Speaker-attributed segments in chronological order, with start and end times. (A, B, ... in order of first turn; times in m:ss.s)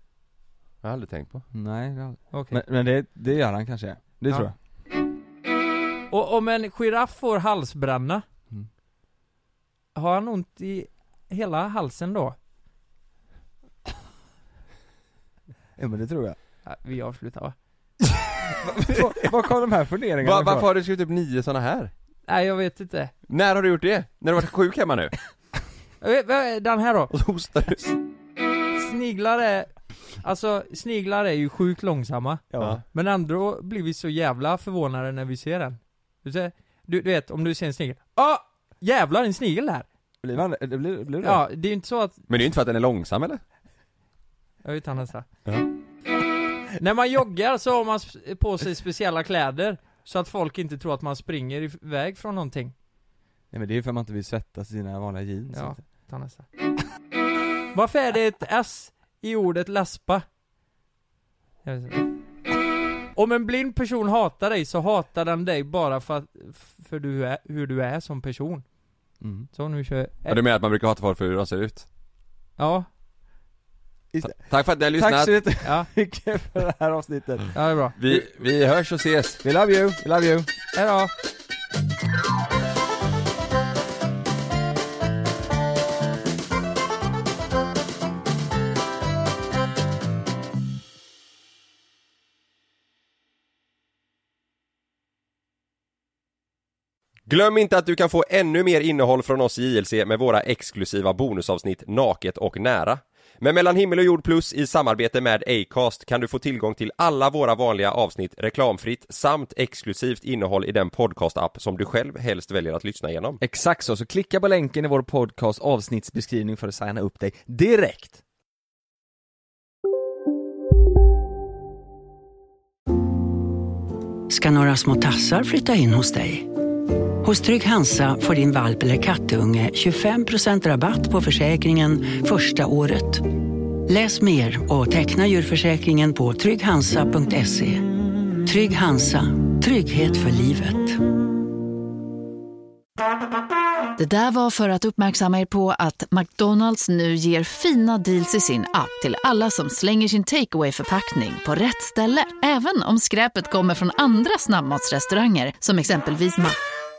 0:00.8-0:01.4 A
0:01.5-0:04.5 B
0:02.3-0:02.6 C
0:06.1-0:08.2 C
0:10.0-0:12.4 C
0:15.8-0:16.4 B
0:16.6-0:17.6 C
0:18.6-0:20.7 B
0:20.2-0:21.9 A
0:22.3-0:23.1 C
0:23.3-0:25.1 A
0:26.0-0:27.1 C
0:27.1-0:27.9 A
0:28.8-0:39.9 C
0:32.5-0:32.8 B
0:40.2-0:41.4 B
0:41.2-0:42.2 C
0:42.3-0:43.4 A
0:44.6-0:45.3 C
0:46.8-0:52.7 C
0:53.5-0:55.8 B
0:55.5-0:56.4 C
0:57.7-1:00.2 C
1:01.6-1:02.1 C
1:03.2-1:08.6 C
1:09.2-1:09.5 B
1:09.5-1:10.4 C
1:10.3-1:11.9 A
1:12.6-1:12.9 C
1:14.1-1:18.2 B
1:14.3-1:15.3 A
1:17.5-1:18.0 C
1:18.0-1:19.4 A
1:19.4-1:20.5 B
1:20.7-1:21.1 C
1:37.3-1:53.4 A
1:53.4-1:58.2 B
2:04.3-2:06.5 D
2:07.2-2:17.9 D
2:18.4-2:21.0 D
2:24.0-2:36.6 E